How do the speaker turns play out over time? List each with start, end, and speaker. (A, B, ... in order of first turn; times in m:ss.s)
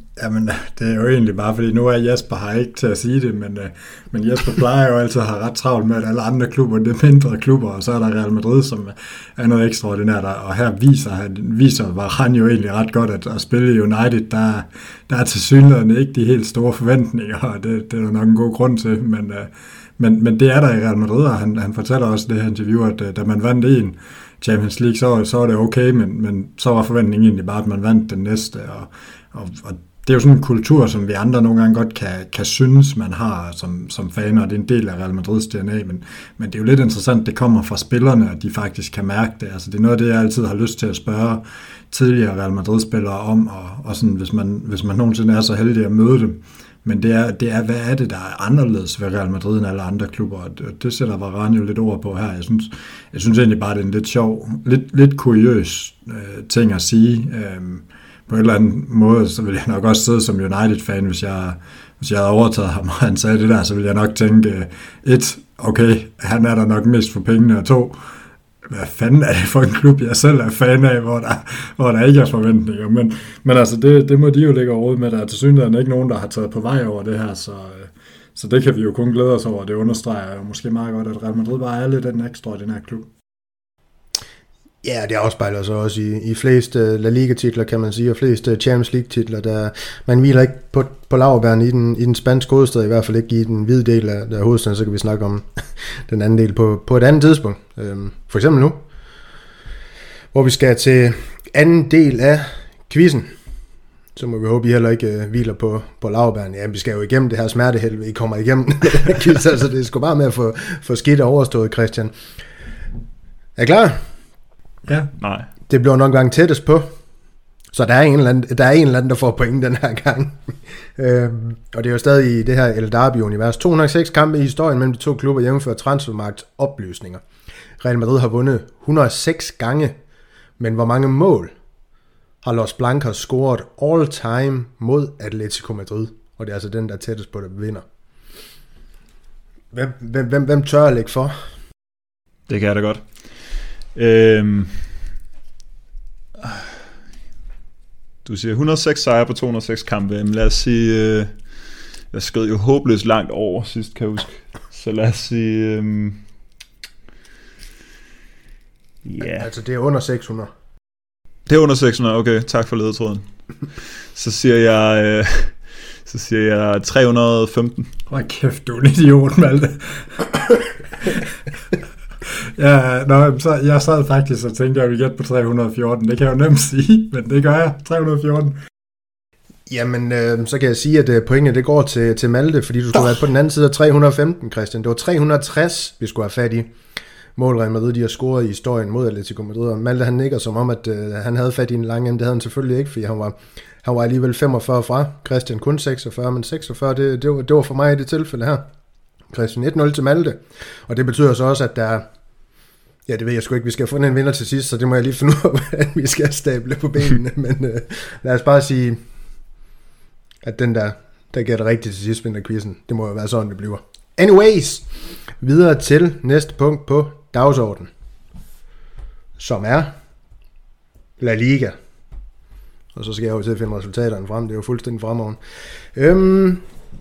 0:00.2-1:08.0 A
1:08.7-1:23.1 A
1:24.8-1:35.5 B
1:36.1-1:38.8 B
1:40.3-1:43.3 B
1:44.1-1:52.1 B
1:53.6-1:54.0 B
1:55.2-1:55.5 C
1:55.7-1:56.9 B
1:57.7-2:07.2 B
2:07.8-2:10.0 B
2:10.6-2:11.5 B
2:12.4-2:17.8 B
2:19.7-2:21.4 B
2:22.5-2:23.0 C
2:24.0-2:24.9 C
2:28.2-2:31.3 C
2:32.1-2:36.2 C
2:39.0-2:39.5 C
2:39.4-2:40.5 B
2:41.5-2:43.2 C
2:44.1-2:45.5 C
2:46.0-2:47.9 C
2:48.1-2:51.4 A
2:52.2-2:58.6 A
2:59.7-3:06.7 B
3:07.4-3:18.7 B
3:19.3-3:22.1 B
3:23.1-3:29.0 B
3:30.4-3:34.9 B
3:35.4-3:37.9 B
3:39.4-3:39.9 B
3:41.2-3:41.8 B
3:42.9-3:45.4 B
3:45.9-3:46.6 B